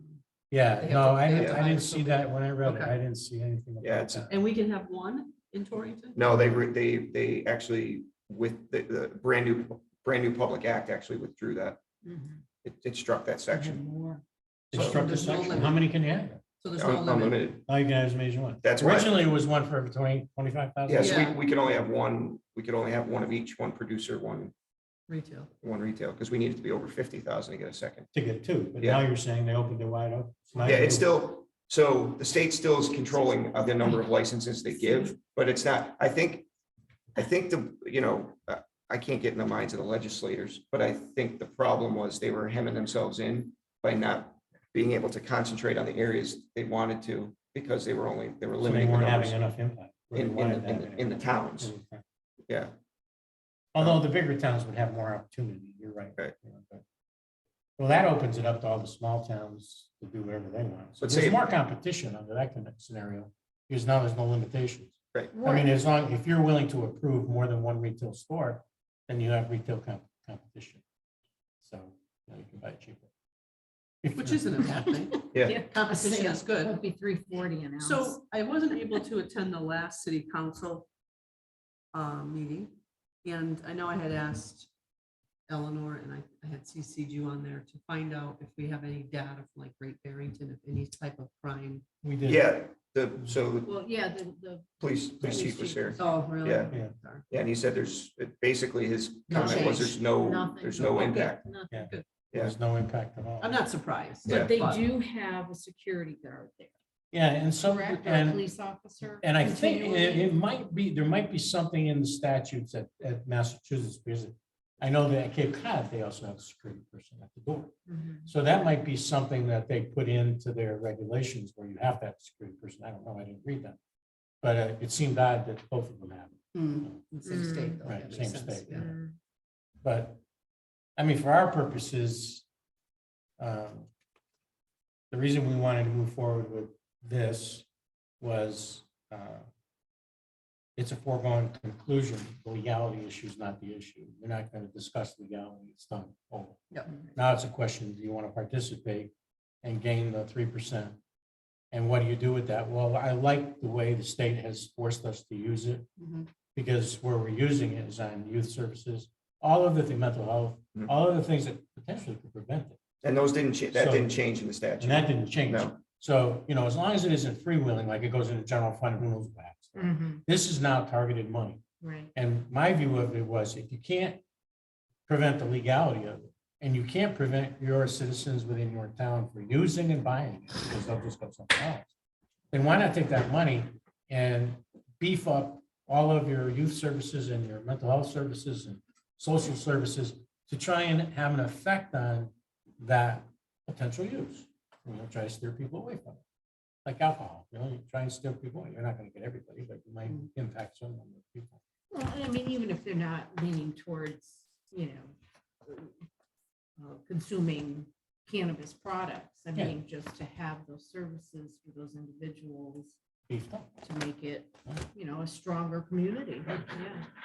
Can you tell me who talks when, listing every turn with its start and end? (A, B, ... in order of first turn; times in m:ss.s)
0:00.5-0:04.3 A
0:00.8-0:03.0 B
0:01.4-0:01.7 C
0:03.8-0:04.3 C
0:04.3-0:06.4 B
0:06.2-0:11.8 C
0:12.0-0:12.4 D
0:12.6-0:13.8 C
0:13.6-0:14.2 D
0:14.7-0:15.1 C
0:14.7-0:16.4 A
0:14.8-0:15.9 B
0:16.6-0:17.5 B
0:16.7-0:17.6 C
0:17.7-0:21.8 A
0:18.6-0:19.2 C
0:20.9-0:24.5 C
0:21.0-0:21.4 B
0:25.1-0:25.5 B
0:25.6-0:28.1 C
0:28.1-0:31.1 A
0:28.8-0:29.0 C
0:30.6-0:36.5 C
0:34.9-0:35.1 B
0:37.2-0:49.5 C
0:48.6-0:52.0 A
0:50.1-0:51.7 C
0:53.7-0:56.8 A
0:57.8-1:10.8 A
1:01.0-1:01.4 C
1:05.3-1:05.7 D
1:11.6-1:13.1 A
1:14.0-1:14.4 A
1:14.2-1:16.8 B
1:15.3-1:15.6 C
1:15.3-1:18.2 D
1:17.8-1:20.9 B
1:21.9-1:24.7 B
1:25.5-1:31.8 B
1:32.0-1:32.5 A
1:32.2-1:33.7 C
1:33.6-1:36.1 D
1:34.8-1:36.7 C
1:36.0-1:37.2 B
1:37.3-1:41.4 C
1:39.3-1:40.0 B
1:39.3-1:42.0 D
1:40.8-1:41.4 B
1:41.7-1:43.6 A
1:42.3-1:42.6 C
1:43.4-1:44.9 B
1:44.2-1:44.6 C
1:44.3-1:46.8 D
1:47.1-1:48.4 A
1:47.6-1:50.3 D
1:49.2-1:57.7 A
1:57.9-1:58.3 D
1:58.2-2:03.8 A
2:04.4-2:07.0 A
2:06.5-2:08.9 B
2:07.2-2:07.8 D
2:07.8-2:08.9 A
2:08.7-2:09.2 D
2:09.8-2:10.2 A
2:11.0-2:12.5 A
2:13.4-2:13.9 A
2:15.1-2:17.7 A
2:18.2-2:19.5 A
2:20.8-2:29.1 A
2:29.6-2:31.0 A
2:31.7-2:35.9 A
2:36.0-2:36.3 B
2:36.6-2:42.8 A
2:43.0-2:45.8 C
2:43.7-2:44.2 A
2:44.8-2:51.6 A
2:49.8-2:50.2 D
2:51.8-2:52.1 D
2:52.2-2:54.2 A
2:55.1-3:01.9 A
3:02.5-3:16.2 A
3:16.8-3:21.6 A
3:21.9-3:25.1 D
3:25.6-3:25.9 D
3:26.8-3:33.0 D
3:33.3-3:33.7 A
3:33.8-3:37.1 D